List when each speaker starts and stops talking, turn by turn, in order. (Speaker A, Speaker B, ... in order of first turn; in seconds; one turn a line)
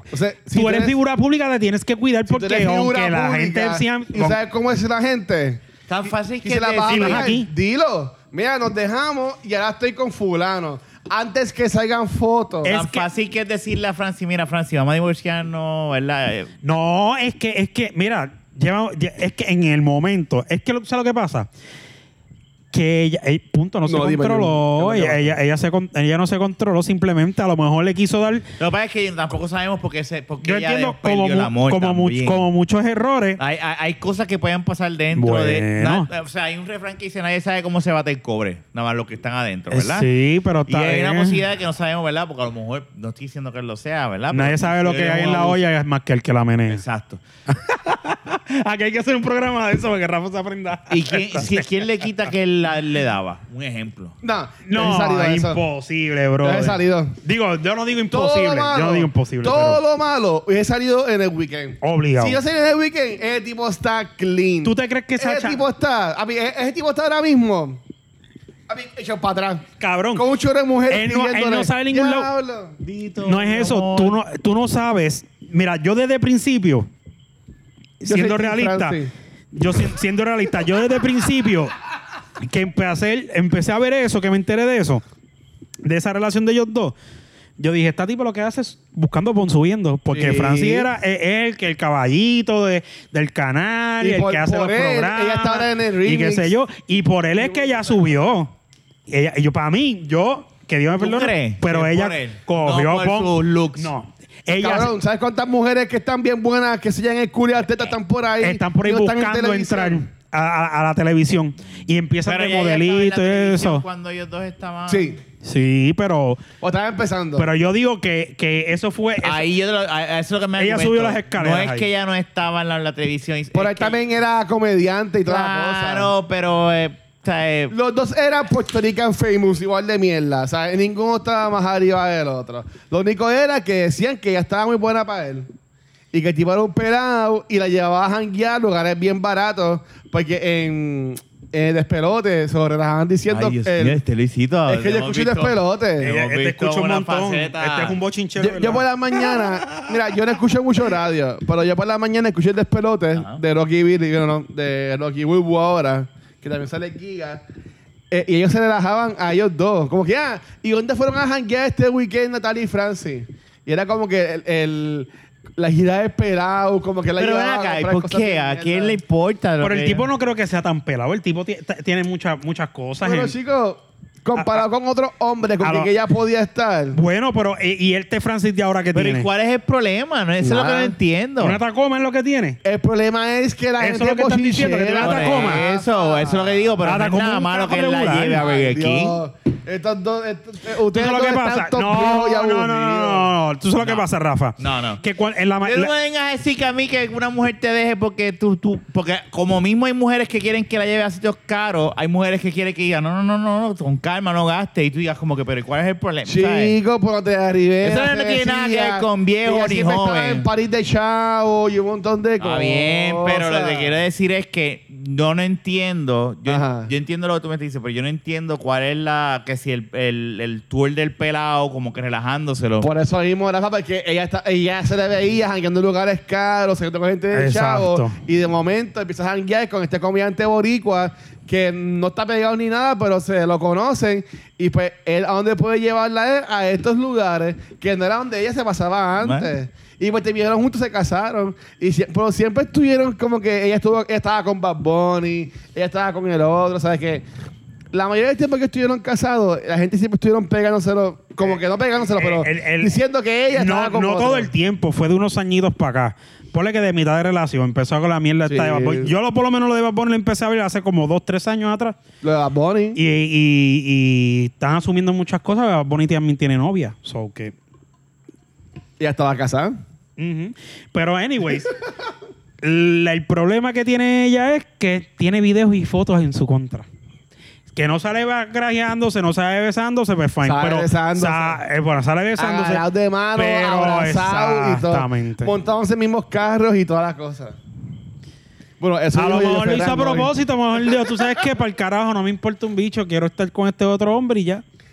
Speaker A: 0.1-1.0
Speaker B: 0.5-4.4
Speaker A: 2.3-12.8
Speaker C: 5.9-7.3
Speaker B: 6.9-7.5
Speaker B: 12.6-13.1
Speaker C: 12.7-16.5
Speaker B: 16.6-21.5
Speaker B: 22.7-28.5
Speaker A: 23.9-25.4
Speaker C: 28.6-32.5
Speaker B: 30.4-33.4
Speaker C: 33.4-40.1
Speaker B: 35.1-36.1
Speaker B: 39.7-41.4
Speaker C: 40.7-45.6
Speaker B: 44.3-46.8
Speaker C: 46.7-47.2
Speaker B: 47.5-51.7
Speaker C: 50.9-54.2
Speaker A: 54.2-55.6
Speaker B: 54.6-59.8
Speaker A: 56.4-57.2
Speaker A: 58.1-67.8
Speaker B: 61.8-62.4
Speaker B: 64.6-65.6
Speaker A: 68.7-72.8
Speaker B: 69.8-70.3
Speaker B: 70.9-72.3
Speaker C: 72.8-74.2
Speaker B: 73.2-76.9
Speaker B: 78.0-79.0
Speaker A: 78.1-79.1
Speaker B: 79.5-81.7
Speaker B: 82.4-85.0
Speaker B: 85.8-87.0
Speaker B: 87.6-98.5
Speaker A: 90.1-90.9
Speaker A: 94.0-96.5
Speaker A: 97.4-97.9
Speaker B: 99.1-104.9
Speaker C: 101.0-103.9
Speaker A: 104.6-110.0
Speaker B: 108.4-113.8
Speaker C: 112.2-115.2
Speaker A: 114.9-115.2
Speaker B: 115.4-116.4
Speaker A: 116.6-117.5
Speaker B: 117.4-119.5
Speaker C: 119.2-124.0
Speaker B: 120.6-121.9
Speaker A: 123.5-126.1
Speaker C: 125.3-127.7
Speaker A: 127.7-135.5
Speaker A: 136.1-144.0
Speaker C: 143.3-148.0
Speaker A: 144.7-146.1
Speaker B: 146.0-149.9
Speaker A: 148.4-157.4
Speaker C: 153.2-153.4
Speaker A: 158.1-169.0
Speaker C: 167.2-170.1
Speaker B: 169.6-173.3
Speaker A: 173.0-177.0
Speaker B: 174.4-174.6
Speaker B: 175.6-175.9
Speaker B: 176.9-179.3
Speaker C: 178.9-181.6
Speaker A: 180.4-181.0
Speaker B: 181.4-182.6
Speaker A: 182.6-186.7
Speaker B: 183.8-185.6
Speaker C: 185.0-189.2
Speaker B: 186.8-188.4
Speaker A: 188.4-193.3
Speaker B: 190.9-195.9
Speaker C: 193.8-194.1
Speaker C: 194.6-195.0
Speaker C: 195.6-206.8
Speaker A: 206.3-213.9
Speaker C: 207.8-210.5
Speaker C: 212.4-222.9
Speaker A: 216.5-216.9
Speaker A: 222.8-247.3
Speaker B: 227.3-228.2
Speaker C: 239.2-239.5
Speaker A: 247.9-254.5
Speaker B: 252.2-253.0
Speaker B: 253.5-262.0
Speaker A: 258.5-259.1
Speaker A: 262.2-263.0
Speaker B: 262.9-267.5
Speaker A: 269.0-269.8
Speaker B: 270.2-271.8
Speaker B: 272.6-276.9
Speaker B: 277.7-282.8
Speaker A: 280.4-281.6
Speaker A: 282.4-287.6
Speaker B: 283.4-285.5
Speaker A: 288.8-290.3
Speaker B: 289.1-294.6